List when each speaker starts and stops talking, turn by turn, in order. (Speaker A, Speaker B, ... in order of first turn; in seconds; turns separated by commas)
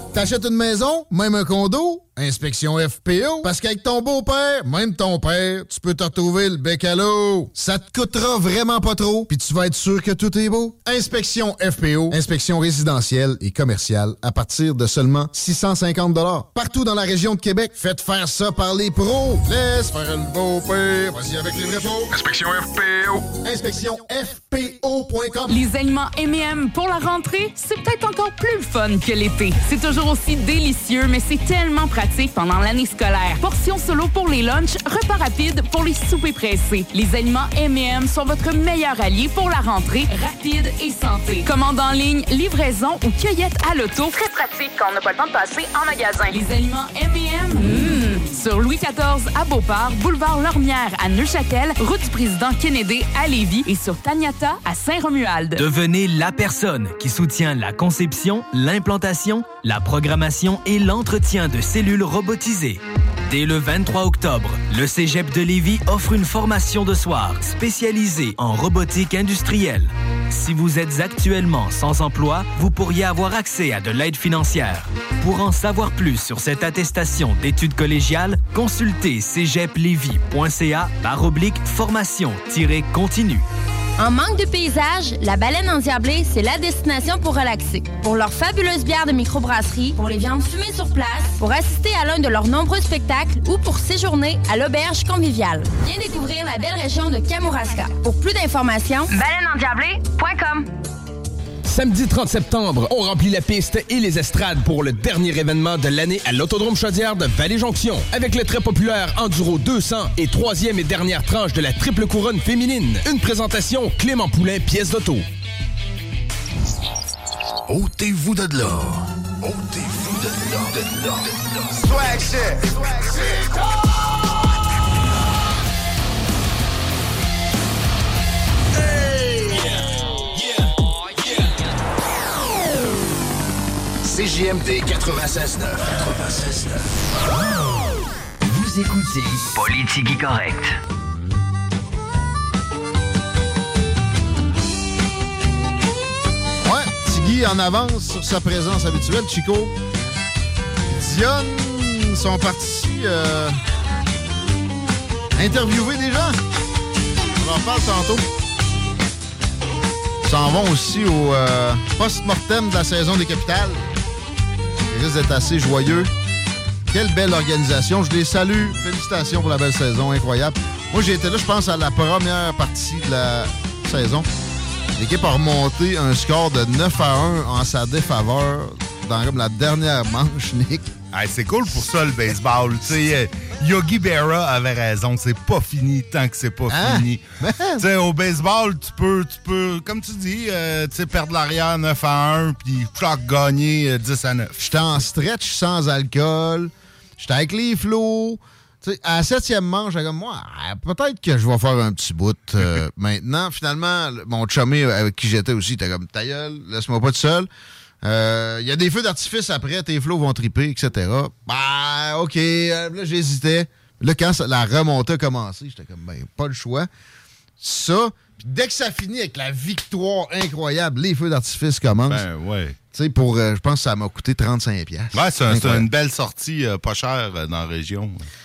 Speaker A: 0.1-22.1, Speaker A: 23.4-25.6, Speaker B: 25.5-55.6, Speaker C: 55.6-83.5, Speaker D: 84.0-100.7, Speaker E: 101.7-115.3, Speaker F: 117.7-121.3, Speaker F: 134.0-136.9, Speaker G: 138.5-140.8, Speaker A: 146.6-149.7, Speaker A: 150.9-153.6, Speaker A: 155.4-156.4, Speaker A: 157.4-158.2, Speaker A: 160.2-163.9, Speaker A: 164.9-166.1, Speaker A: 166.9-174.3, Speaker A: 175.0-180.9, Speaker H: 181.1-187.2, Speaker A: 186.7-187.8, Speaker H: 187.8-194.6, Speaker A: 194.6-207.5, Speaker A: 208.0-216.9, Speaker A: 217.6-222.2, Speaker H: 222.1-222.8, Speaker A: 222.9-225.9, Speaker H: 225.1-228.3